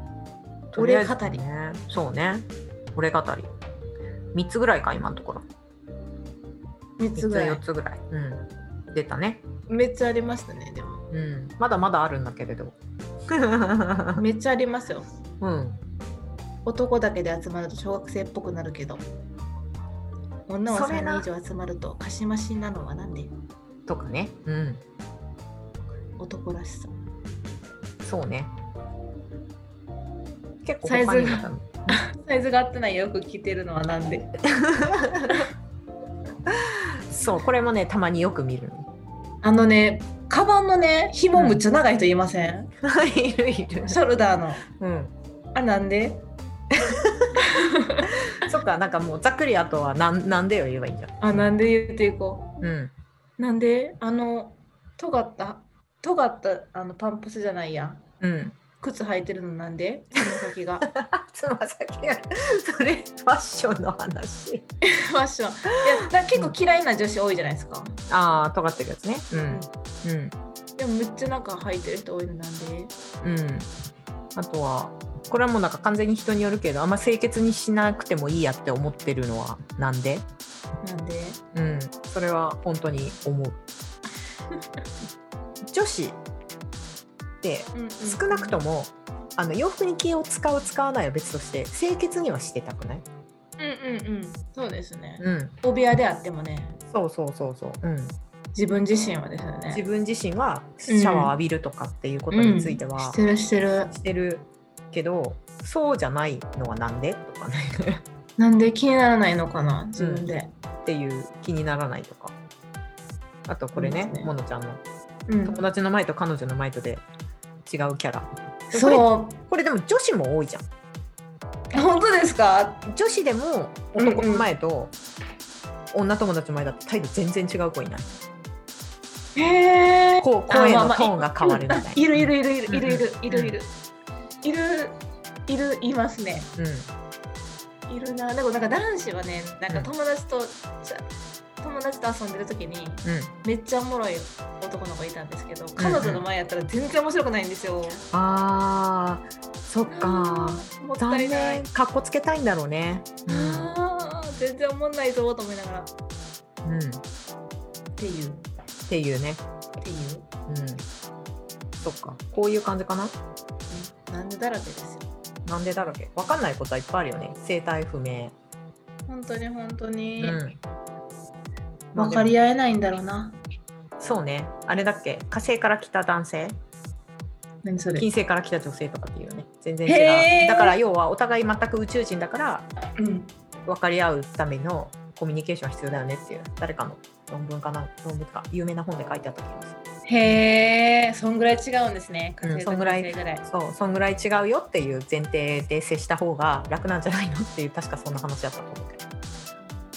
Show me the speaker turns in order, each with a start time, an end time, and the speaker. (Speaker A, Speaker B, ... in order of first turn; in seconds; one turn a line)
Speaker A: 0.7-3.5
Speaker B: 0.8-1.4
Speaker A: 4.3-5.5
Speaker B: 7.0-7.6
Speaker A: 7.2-9.4
Speaker B: 9.7-11.1
Speaker A: 11.1-12.8
Speaker A: 13.3-14.2
Speaker B: 14.2-15.1
Speaker A: 15.4-15.8
Speaker B: 16.6-19.0
Speaker B: 20.5-23.3
Speaker A: 20.7-21.3
Speaker A: 23.9-24.8
Speaker B: 26.2-26.9
Speaker A: 28.0-28.5
Speaker A: 30.6-32.0
Speaker B: 30.8-34.3
Speaker A: 34.5-35.5
Speaker A: 36.5-38.9
Speaker B: 39.4-42.7
Speaker A: 41.4-41.6
Speaker A: 42.8-44.0
Speaker B: 43.9-44.6
Speaker A: 44.7-45.1
Speaker B: 45.5-46.2
Speaker A: 46.7-47.4
Speaker B: 47.4-48.1
Speaker A: 48.3-51.5
Speaker B: 51.2-52.6
Speaker A: 52.6-52.9
Speaker B: 53.4-58.0
Speaker A: 58.2-58.6
Speaker B: 58.8-60.9
Speaker A: 60.9-64.7
Speaker B: 64.8-68.0
Speaker A: 65.7-66.5
Speaker A: 68.1-70.3
Speaker B: 69.3-69.7
Speaker B: 70.8-72.9
Speaker A: 73.2-73.7
Speaker A: 74.4-80.2
Speaker B: 80.8-81.4
Speaker A: 81.5-83.6
Speaker B: 84.5-84.8
Speaker A: 85.7-86.2
Speaker A: 87.4-93.0
Speaker B: 87.7-88.6
Speaker B: 93.6-96.8
Speaker A: 95.2-95.5
Speaker A: 96.9-98.2
Speaker B: 98.5-99.8
Speaker A: 99.7-103.2
Speaker B: 100.9-101.3
Speaker B: 102.3-103.9
Speaker A: 103.9-108.0
Speaker B: 108.4-110.5
Speaker A: 110.0-110.3
Speaker A: 110.8-112.3
Speaker A: 113.5-114.8
Speaker B: 113.8-114.3
Speaker B: 115.3-115.6
Speaker A: 115.5-117.0
Speaker A: 117.7-120.7
Speaker B: 118.7-119.4
Speaker B: 121.7-122.8
Speaker A: 122.9-124.9
Speaker B: 124.0-124.5
Speaker A: 125.9-128.1
Speaker B: 129.3-133.7
Speaker A: 130.2-133.6
Speaker B: 134.4-136.5
Speaker A: 136.6-136.9
Speaker B: 137.9-141.1
Speaker B: 141.6-148.1
Speaker A: 143.1-143.3
Speaker A: 145.8-146.2
Speaker A: 148.1-153.7
Speaker B: 149.9-151.7
Speaker B: 153.3-155.9
Speaker A: 156.7-157.0
Speaker B: 158.0-158.4
Speaker A: 158.9-159.4
Speaker B: 159.8-160.3
Speaker A: 160.5-160.8
Speaker A: 161.8-163.2
Speaker B: 163.7-165.1
Speaker A: 165.4-168.3
Speaker B: 169.1-170.4
Speaker A: 170.2-170.6
Speaker B: 171.9-173.4
Speaker A: 171.9-172.3
Speaker A: 174.0-176.6
Speaker B: 177.6-178.1
Speaker A: 178.0-182.7
Speaker B: 179.9-180.8
Speaker B: 183.0-183.3
Speaker A: 183.7-189.8
Speaker B: 190.1-193.4
Speaker A: 192.4-199.0